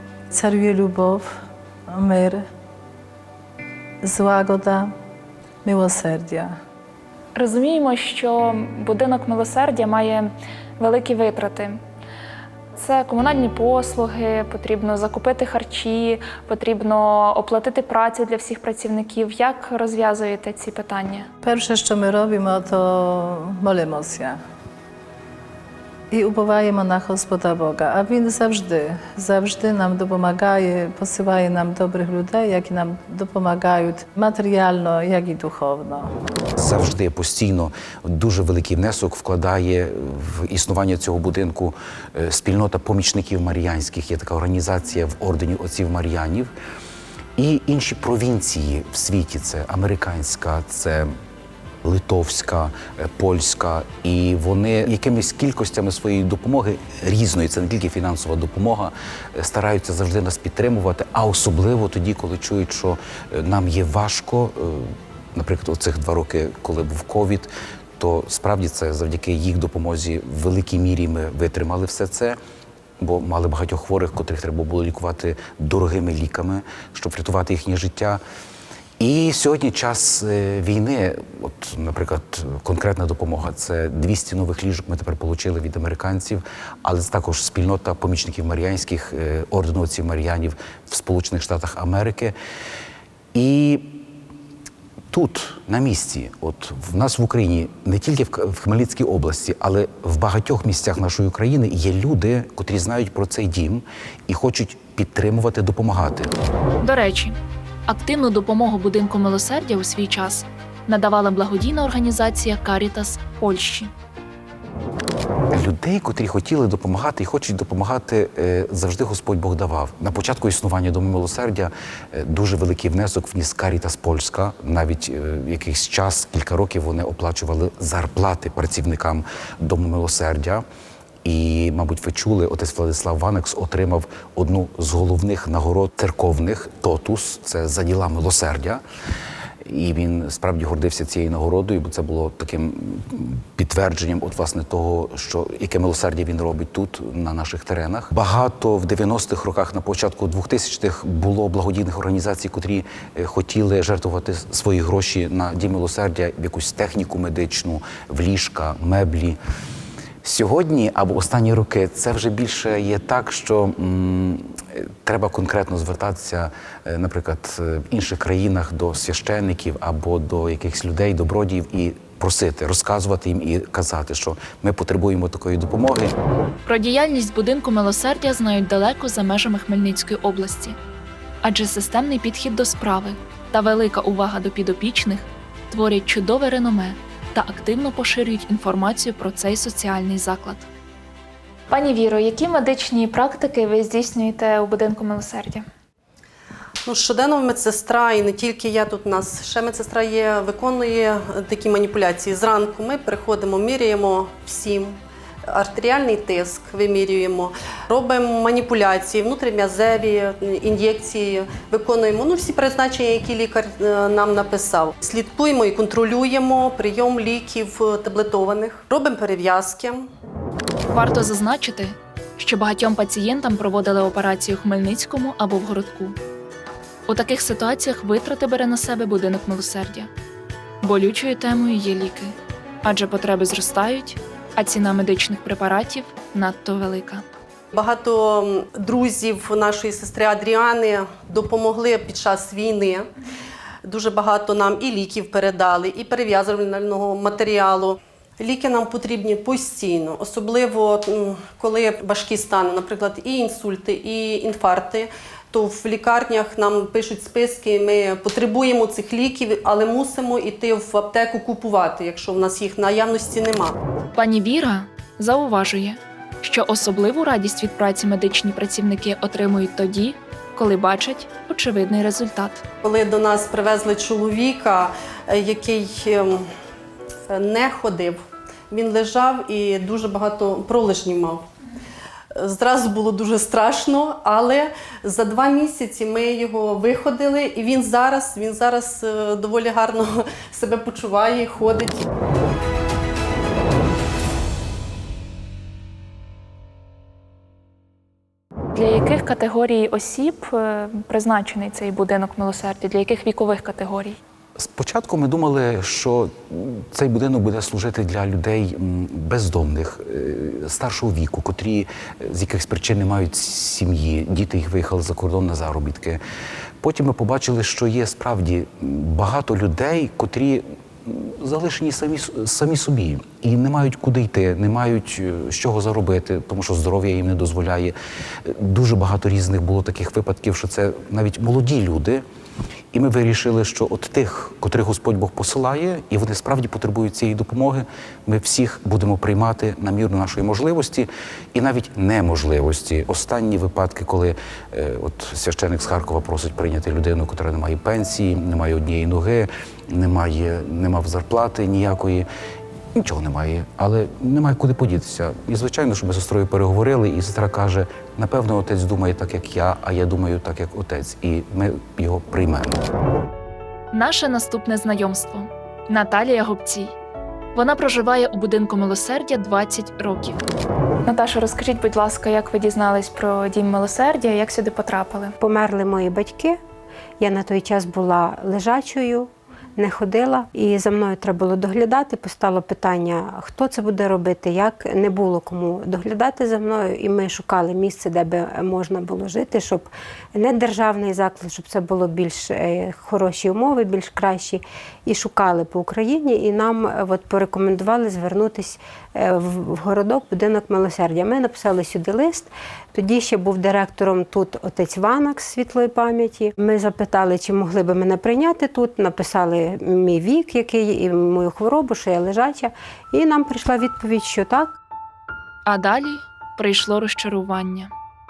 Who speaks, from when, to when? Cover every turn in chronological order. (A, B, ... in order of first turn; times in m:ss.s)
0:00.3-0:01.3 A
0:01.9-0:02.4 A
0:04.0-0:04.9 A
0:05.6-0:06.6 A
0:07.4-0:11.8 B
0:12.8-0:21.3 B
0:21.4-0:24.4 A
0:26.1-0:36.1 A
0:36.6-0:46.5 C
0:47.4-0:51.1 C
0:51.8-1:12.4 C
1:13.0-1:18.2 C
1:19.0-1:32.3 C
1:33.3-1:34.1 C
1:35.1-1:46.3 C
1:46.8-1:47.4 B
1:47.9-1:53.9 B
1:55.5-2:10.6 C
2:11.2-2:18.8 C
2:19.6-2:39.4 C
2:40.2-2:56.1 C
2:56.6-3:00.8 B
3:01.4-3:10.6 B
3:11.7-3:15.6 B
3:16.8-3:25.0 D
3:25.5-3:40.1 D
3:40.9-3:46.2 B
3:47.1-3:50.1 B
3:50.8-3:57.2 B
3:57.7-4:03.1 D
4:03.8-4:23.8 D
4:24.2-4:32.6 B
4:32.8-4:36.5 D
4:37.3-4:41.4 D
4:42.4-4:52.1 D
4:58.8-5:04.2 B
5:04.6-5:16.2 C
5:16.8-5:27.9 C
5:28.4-5:32.2 C
5:32.9-5:52.3 C
5:53.0-6:02.8 C
6:03.9-6:07.0 B
6:07.5-6:10.4 B
6:11.1-6:15.4 B
6:15.4-6:16.6 E
6:17.2-6:54.8 E
6:55.6-6:57.9 B